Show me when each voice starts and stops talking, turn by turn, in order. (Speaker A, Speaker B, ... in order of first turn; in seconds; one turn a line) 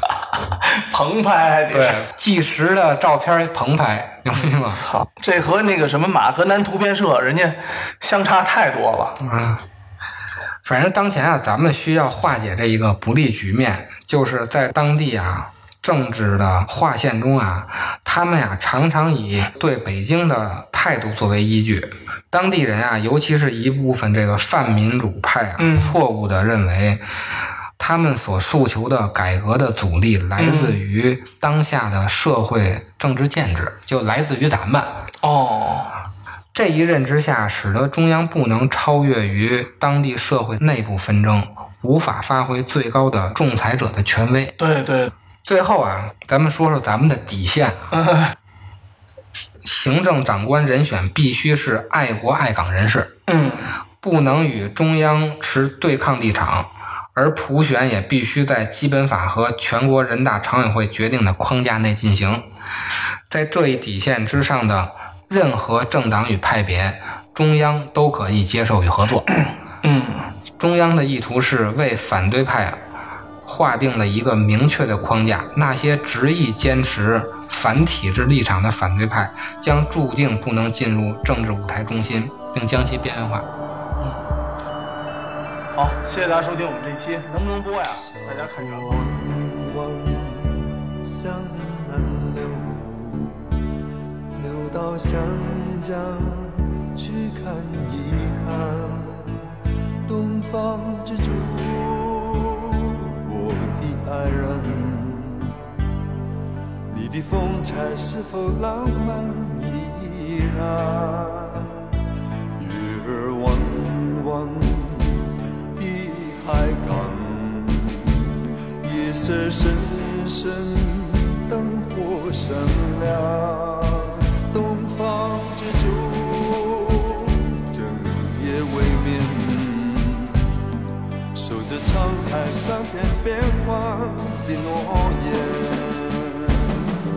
Speaker A: 0.6-2.0
Speaker B: 1.7-4.8
Speaker A: 4.3-9.2
Speaker B: 9.2-9.6
Speaker B: 10.6-27.0
Speaker A: 25.6-26.0
Speaker B: 27.8-34.9
Speaker A: 30.4-30.8
Speaker A: 35.2-35.9
Speaker B: 36.5-44.6
Speaker A: 44.6-45.1
Speaker B: 45.5-48.0
Speaker A: 48.0-48.3
Speaker B: 49.6-53.1
Speaker A: 53.3-53.7
Speaker B: 54.0-62.4
Speaker B: 63.3-69.3
Speaker A: 69.8-70.3
Speaker B: 70.6-72.8
Speaker B: 73.4-83.5
Speaker A: 85.7-88.9
Speaker C: 88.1-93.5
Speaker C: 94.3-99.5
Speaker C: 100.0-105.6
Speaker C: 106.9-111.8
Speaker C: 112.6-130.6
Speaker C: 131.3-136.7